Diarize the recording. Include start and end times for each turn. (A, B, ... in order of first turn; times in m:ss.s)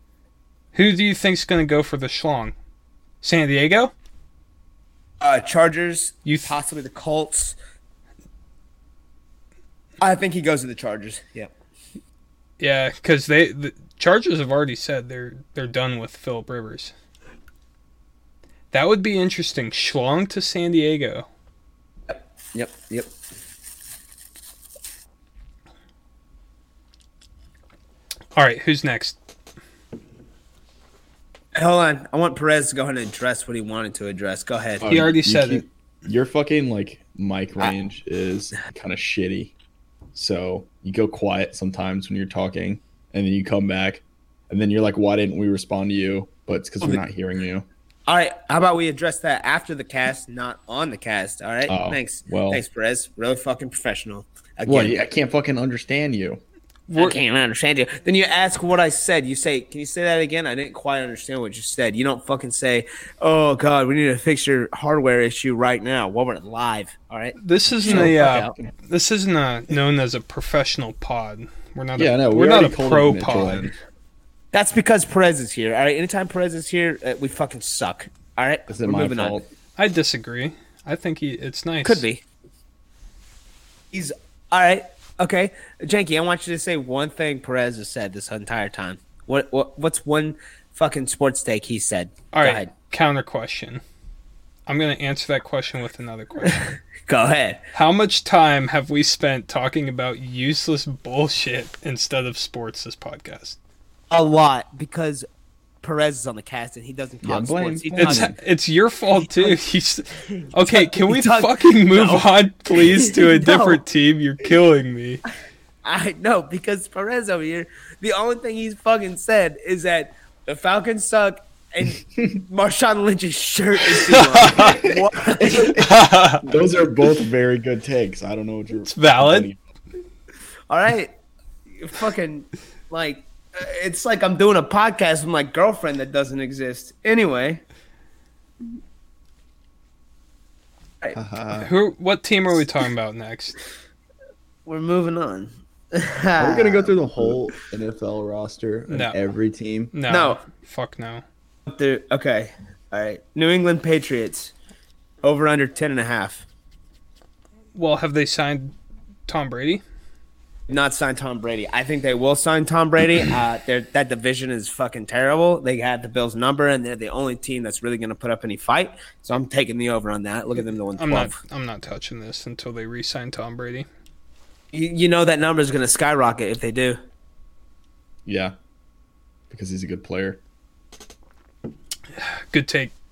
0:00.7-0:02.5 A
0:03.2-0:03.9 A
0:05.2-0:07.6 B
0:06.3-0:06.5 A
0:10.0-0:11.5 B
0:12.6-0:16.9 A
0:18.7-0:21.3 A
0:22.1-0:23.1 B
0:28.4-0:29.2 A
0:31.6-0:34.8 B
0:34.8-0:39.5 C
0:34.8-0:35.6 A
0:40.1-0:47.7 C
0:48.1-0:55.0 B
0:51.7-0:52.6 C
0:54.7-0:56.4 C
0:56.9-0:57.2 A
0:57.0-1:08.5 B
1:07.4-1:13.7 A
1:07.8-1:08.7 C
1:12.0-1:13.7 C
1:14.5-1:19.4 B
1:18.7-1:19.5 C
1:19.8-1:22.0 A
1:21.8-1:22.2 B
1:23.9-1:32.7 B
1:32.3-1:33.8 A
1:34.7-1:36.7 A
1:36.4-1:37.6 B
1:37.7-1:43.6 A
1:44.1-1:45.3 B
1:45.8-1:48.4 B
1:47.2-1:48.4 C
1:48.0-1:55.2 A
1:49.2-1:49.6 B
1:50.3-1:53.8 B
1:55.8-2:05.8 B
2:04.1-2:04.8 A
2:05.4-2:09.6 C
2:05.8-2:06.5 A
2:08.8-2:09.5 A
2:10.7-2:11.1 B
2:11.8-2:17.6 B
2:21.2-2:21.7 C
2:21.6-2:23.6 A
2:24.7-2:27.3 B
2:26.4-2:29.9 C
2:28.9-2:29.2 A
2:29.9-2:31.2 A
2:30.1-2:30.4 B
2:31.7-2:34.5 B
2:35.2-2:36.5 B
2:37.8-2:38.7 A
2:39.3-2:39.8 A
2:40.7-2:51.4 B
2:51.0-2:53.9 A
2:54.7-2:57.0 B
2:58.3-2:58.6 C
2:59.5-3:00.4 C
3:02.2-3:02.9 A